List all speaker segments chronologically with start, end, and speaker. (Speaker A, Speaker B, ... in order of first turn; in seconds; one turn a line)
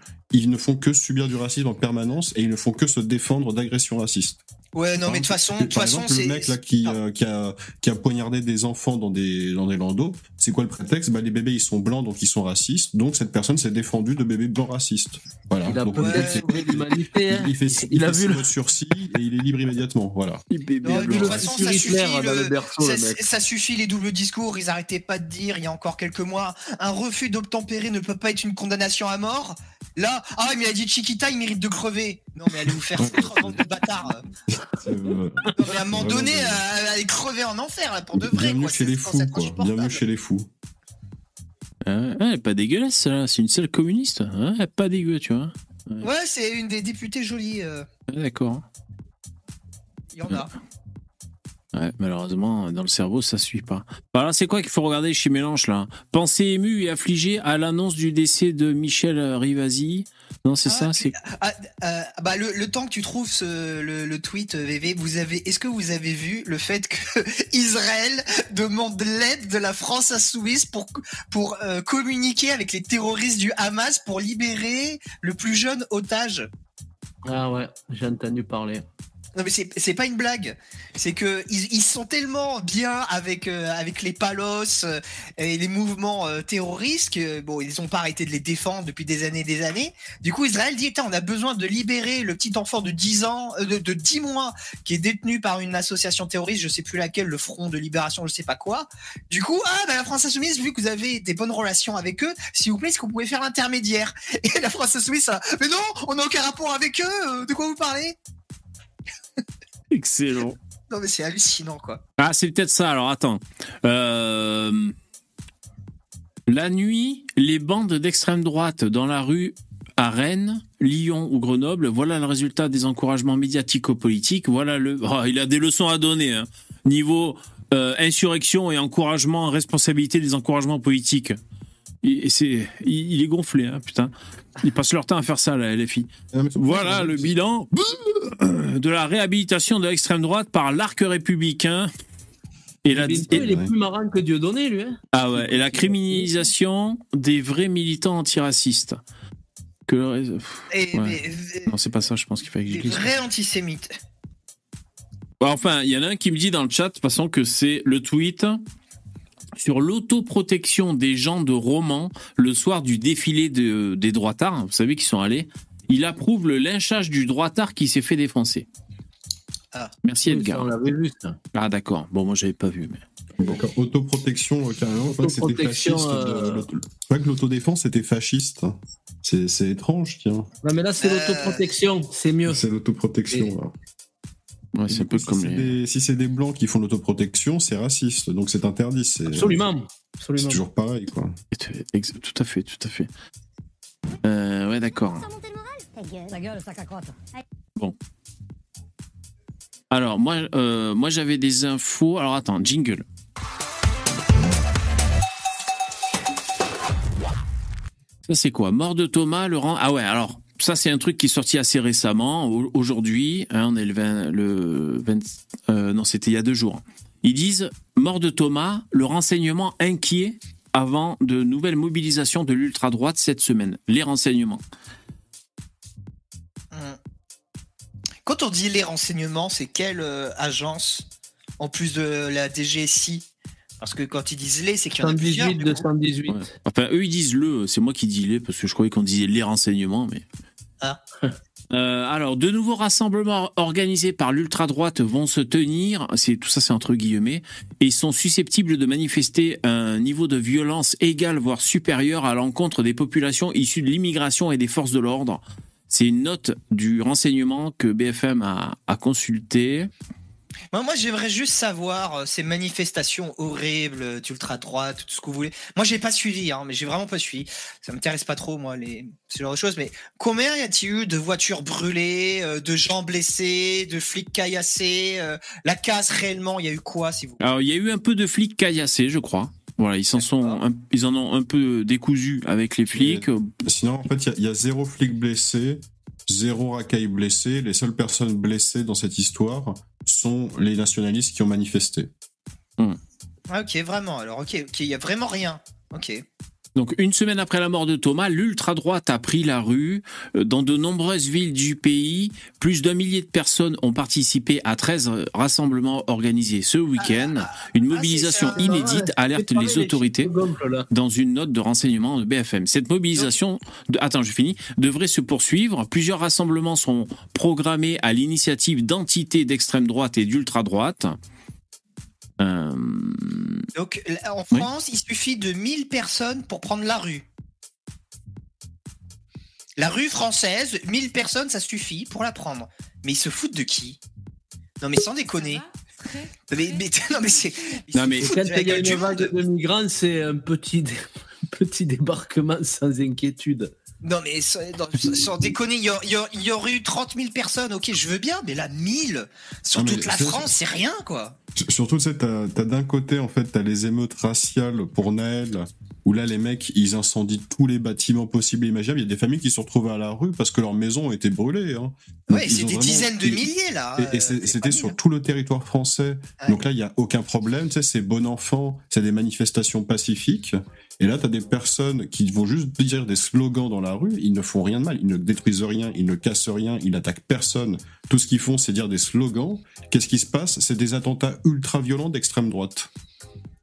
Speaker A: 0.3-4.4
Speaker B: 4.7-7.0
Speaker A: 5.0-20.4
Speaker C: 15.7-18.4
Speaker B: 15.9-16.5
Speaker D: 20.5-21.8
Speaker B: 20.8-34.2
Speaker C: 20.9-23.2
Speaker A: 33.0-33.6
Speaker A: 34.6-36.6
Speaker B: 35.5-40.0
Speaker A: 38.2-40.5
Speaker D: 41.9-46.0
Speaker B: 46.0-47.9
Speaker D: 48.1-48.6
Speaker B: 50.1-50.5
Speaker D: 51.7-61.2
Speaker B: 60.6-76.5
Speaker C: 77.2-78.8
Speaker B: 79.3-108.2
Speaker D: 109.9-110.5
Speaker B: 110.9-112.0
Speaker D: 112.2-114.9
Speaker D: 116.5-131.4
Speaker D: 132.0-141.9
Speaker A: 136.3-137.3
Speaker D: 142.8-143.5
Speaker C: 142.9-146.3
Speaker A: 143.3-143.7
Speaker D: 145.1-149.0
Speaker D: 149.9-153.1
Speaker B: 150.7-151.7
Speaker B: 152.7-153.9
Speaker D: 155.4-158.6
Speaker D: 159.6-168.7
Speaker D: 170.0-170.7
Speaker C: 170.2-171.4
Speaker D: 171.5-173.0
Speaker A: 173.4-180.5
Speaker C: 175.1-176.7
Speaker C: 180.6-182.6
Speaker B: 181.0-181.7
Speaker A: 182.5-183.7
Speaker D: 184.7-185.7
Speaker A: 184.9-189.7
Speaker C: 189.3-190.6
Speaker A: 190.4-191.3
Speaker D: 191.5-193.1
Speaker D: 194.2-195.2
Speaker E: 195.2-197.2
Speaker D: 199.9-203.0
Speaker D: 208.3-224.6
Speaker B: 226.7-227.0
Speaker B: 228.2-231.1
Speaker B: 231.6-233.2
Speaker B: 233.8-235.8
Speaker C: 235.0-236.5
Speaker D: 236.3-240.2
Speaker D: 241.7-259.9
Speaker B: 260.7-277.4
Speaker D: 277.4-283.5
Speaker B: 280.2-280.6
Speaker A: 283.0-292.1
Speaker B: 293.5-296.2
Speaker D: 296.8-310.3
Speaker B: 307.0-308.7
Speaker C: 308.4-310.9
Speaker D: 310.9-321.2
Speaker D: 322.4-323.6
Speaker B: 323.7-327.2
Speaker B: 329.8-334.0
Speaker B: 334.8-335.6
Speaker B: 336.5-339.3
Speaker D: 337.9-338.3
Speaker C: 338.1-341.0
Speaker C: 341.5-343.7
Speaker B: 344.0-351.4
Speaker A: 349.7-350.5
Speaker A: 351.6-363.4
Speaker B: 362.3-364.9
Speaker A: 364.0-382.9